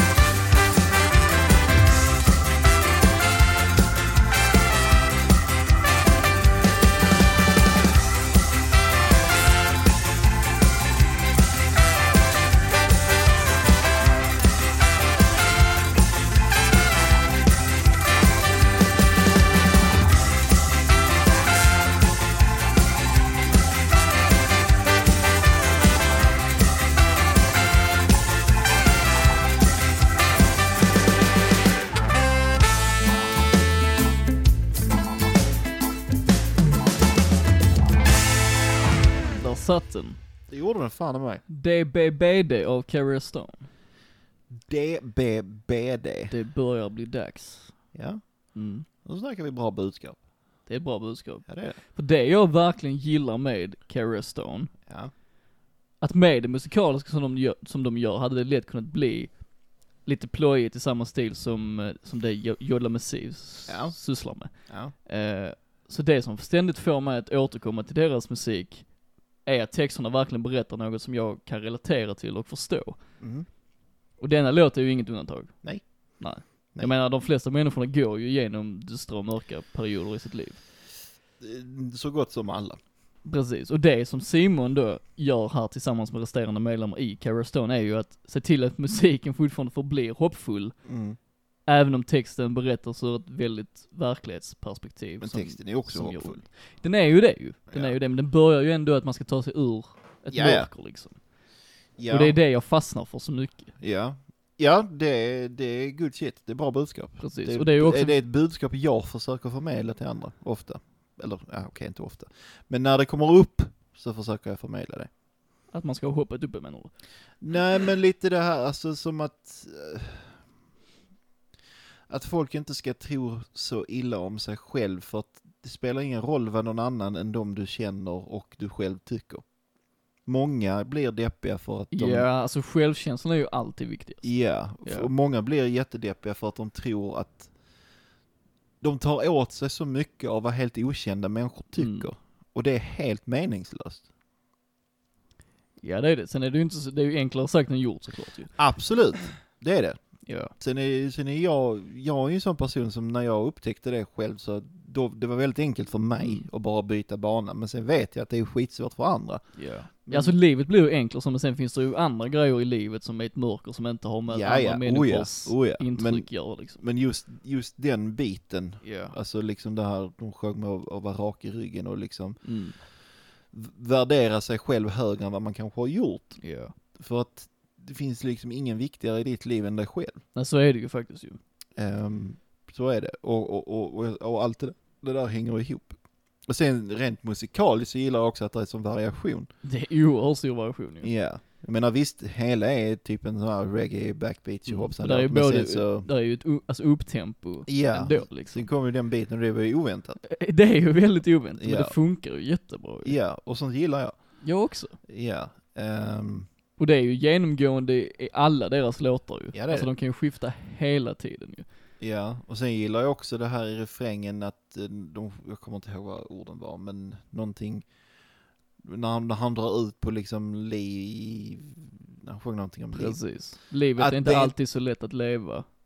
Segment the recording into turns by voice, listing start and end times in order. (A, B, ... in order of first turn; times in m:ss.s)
0:39.2-0:40.2 A
0:40.5-0:41.4 B
0:41.5-0:43.7 A
0:44.5-0:46.3 B
0:46.3-0:47.8 A
0:47.9-0:48.2 B
0:48.5-0:48.9 A
0:49.0-0:50.2 B
0:50.7-0:54.7 A
0:51.5-0:51.8 B
0:54.9-0:55.1 B
0:56.0-0:59.4 A
1:00.0-1:13.0 A
1:03.7-1:04.0 B
1:04.7-1:04.9 B
1:13.2-1:13.5 B
1:14.2-1:20.6 A
1:21.4-1:22.8 B
1:23.2-1:30.8 A
1:30.8-1:31.2 B
1:31.6-1:41.2 A
1:35.2-1:36.4 B
1:37.7-1:38.0 B
1:40.3-1:40.7 B
1:42.0-1:42.4 B
1:42.1-1:43.7 A
1:43.8-1:55.1 B
1:47.2-1:48.2 A
1:55.7-1:56.9 A
1:57.4-2:00.4 B
2:02.1-2:09.5 B
2:10.2-2:12.3 B
2:11.9-2:15.1 A
2:14.2-2:17.5 B
2:18.8-2:24.1 B
2:21.8-2:22.1 A
2:25.8-2:28.6 A
2:28.6-2:30.0 B
2:30.2-2:30.5 A
2:30.6-2:39.4 B
2:36.2-2:36.5 A
2:39.6-2:46.8 A
2:40.1-2:40.3 B
2:44.3-2:52.4 B
2:48.8-2:49.2 A
2:52.4-2:52.8 A
2:53.5-3:00.2 B
2:56.4-2:56.8 A
3:00.4-3:01.4 A
3:01.8-3:09.5 B
3:09.6-3:11.1 A
3:11.0-3:16.1 B
3:14.7-3:18.7 A
3:17.7-3:20.2 B
3:20.2-3:23.2 A
3:21.6-3:22.0 B
3:23.0-3:24.4 B
3:24.4-3:25.0 A
3:25.0-3:26.5 B
3:26.8-3:31.7 A
3:29.5-3:29.9 B
3:32.0-3:37.9 B
3:38.8-3:43.2 B
3:42.9-3:45.7 A
3:44.0-3:44.5 B